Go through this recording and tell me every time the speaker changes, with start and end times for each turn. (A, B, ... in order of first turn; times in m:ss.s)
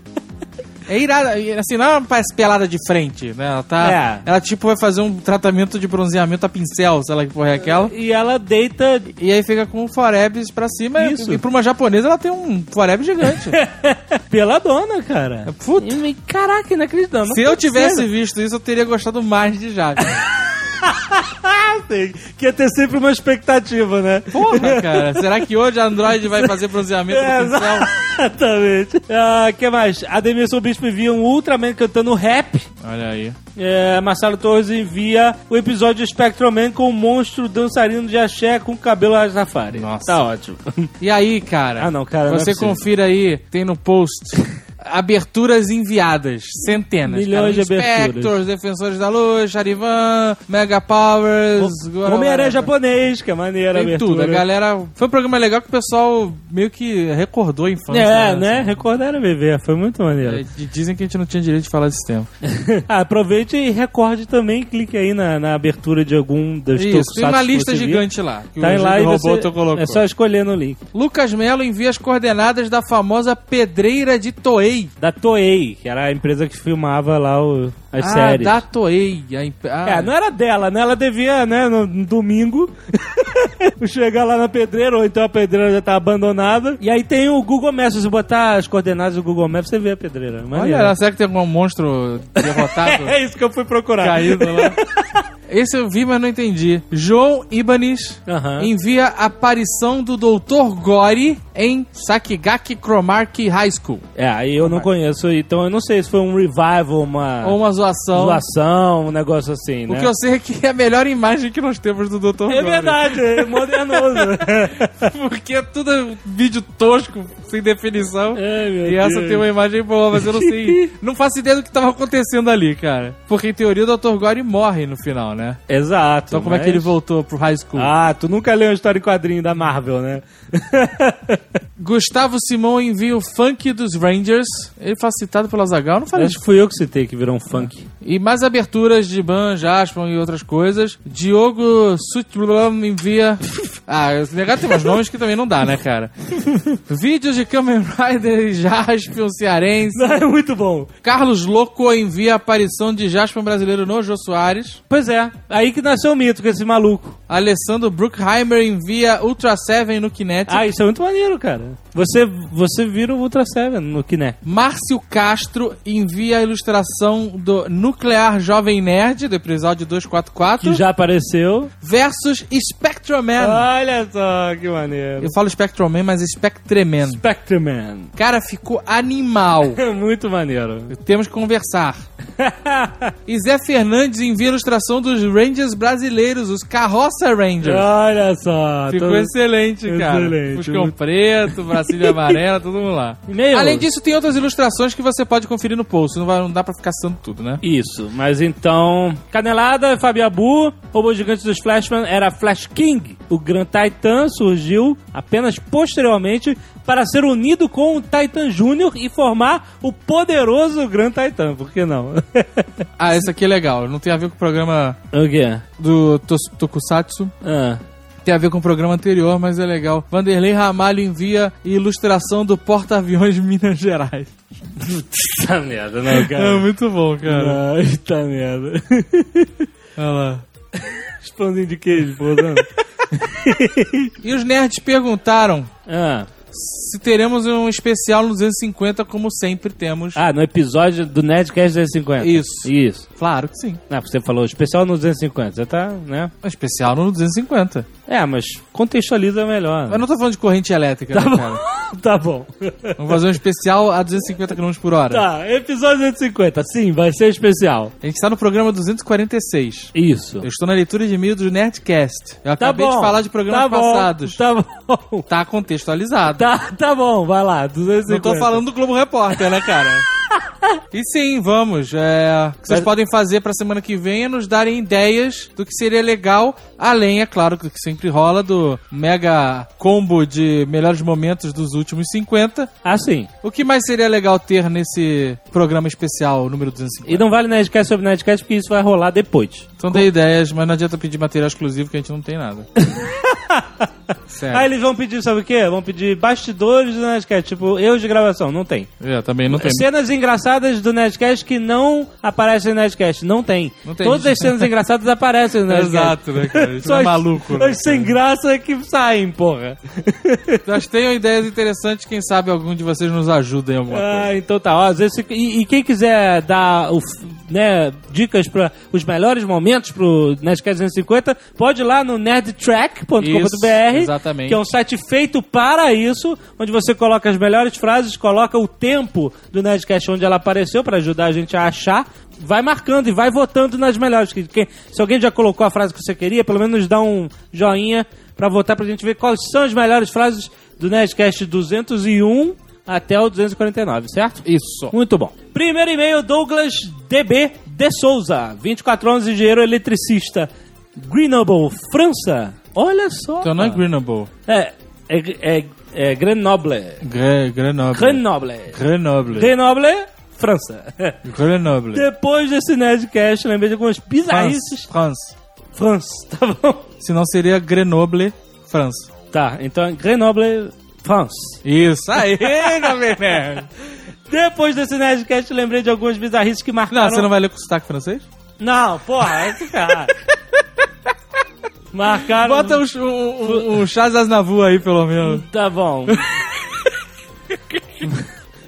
0:00.9-0:07.9 A
0:03.8-0:04.2 B
0:07.6-0:09.1 B
0:09.2-0:13.6 A
0:11.0-0:11.4 B
0:13.3-0:18.1 B
0:15.5-0:16.0 A
0:17.3-0:20.2 A
0:20.6-0:25.2 B
0:24.3-0:27.9 A
0:26.2-0:26.5 B
0:27.1-0:32.7 B
0:32.8-0:33.4 A
0:33.6-0:40.9 B
0:39.7-0:40.2 A
0:41.0-0:52.7 A
0:41.8-0:42.8 B
0:47.1-0:48.3 B
0:51.6-0:54.4 B
0:53.7-0:58.7 A
0:57.9-1:00.4 B
1:00.2-1:02.3 A
1:02.4-1:08.0 B
1:06.8-1:10.0 A
1:08.6-1:10.8 B
1:10.9-1:14.9 A
1:15.0-1:18.6 B
1:18.0-1:20.1 A
1:19.8-1:30.9 B
1:30.5-1:33.1 A
1:32.4-1:35.2 B
1:34.0-1:34.8 A
1:35.5-1:44.0 A
1:38.3-1:38.7 B
1:44.2-1:47.6 B
1:44.6-1:44.9 A
1:47.4-1:48.4 A
1:48.1-1:50.1 B
1:49.9-2:05.6 A
1:52.5-1:55.1 B
1:58.3-1:59.5 B
2:00.1-2:00.9 B
2:05.7-2:06.9 B
2:06.3-2:07.9 A
2:07.8-2:11.4 B
2:11.8-2:16.4 A
2:16.2-2:17.9 B
2:17.5-2:26.1 A
2:26.9-2:30.2 A
2:29.9-2:30.9 B
2:31.0-2:34.8 A
2:34.9-2:37.2 B
2:37.3-2:40.6 A
2:40.5-2:44.4 B
2:44.4-2:50.8 A
2:50.6-2:51.7 B
2:51.8-2:53.7 A
2:53.4-2:55.3 B
2:55.2-2:57.2 A
2:57.0-2:58.1 B
2:58.2-2:59.8 A
2:59.7-3:00.9 B
3:00.9-3:02.0 A
3:02.4-3:03.1 B
3:03.2-3:07.9 A
3:07.6-3:09.3 B
3:08.9-3:17.6 A
3:09.8-3:10.9 B
3:11.6-3:12.4 B
3:13.3-3:13.9 B
3:17.6-3:32.8 B
3:33.0-3:35.0 A
3:35.1-3:35.6 B
3:35.8-3:37.3 A
3:37.4-3:37.8 B
3:38.2-3:44.3 A
3:44.8-3:46.7 B
3:46.1-3:47.6 A
3:47.2-3:49.7 B
3:50.0-3:50.4 A
3:51.2-3:54.1 B
3:54.2-3:55.7 A
3:55.9-3:56.3 B
3:56.5-4:00.2 A
4:00.2-4:03.0 B
4:02.2-4:03.8 A
4:03.9-4:06.3 B
4:06.4-4:07.9 A
4:08.1-4:10.0 B
4:09.9-4:11.6 A
4:11.1-4:13.2 B
4:13.0-4:15.2 A
4:15.1-4:17.9 B
4:18.0-4:24.4 A
4:19.9-4:20.4 B
4:22.6-4:25.2 B
4:25.3-4:26.5 A
4:26.3-4:28.6 B
4:28.1-4:30.0 A
4:30.9-4:42.7 A
4:42.8-4:43.3 B
4:43.4-4:47.2 A
4:47.0-4:50.0 B
4:49.8-4:52.7 A
4:52.8-4:53.9 B
4:54.3-4:54.7 A
4:54.5-4:58.9 B
4:59.0-4:59.8 A
4:59.5-5:10.6 B
5:03.8-5:04.7 A
5:05.7-5:08.1 A
5:10.6-5:14.3 A
5:13.9-5:53.8 B
5:23.2-5:24.6 A
5:44.4-5:44.9 A
5:53.4-5:54.3 A
5:54.5-5:57.0 B
5:57.0-5:59.5 A
5:57.9-5:58.8 B
5:59.3-6:01.2 B
6:01.2-6:02.1 A
6:01.9-6:04.9 B
6:04.3-6:05.3 A
6:05.7-6:06.9 B
6:07.0-6:09.1 A
6:09.3-6:11.6 B
6:11.6-6:13.7 A
6:12.2-6:13.5 B
6:14.3-6:17.3 B
6:16.9-6:18.2 A
6:18.6-6:20.1 B
6:21.9-6:22.8 B
6:22.3-6:25.4 A
6:25.2-6:26.2 B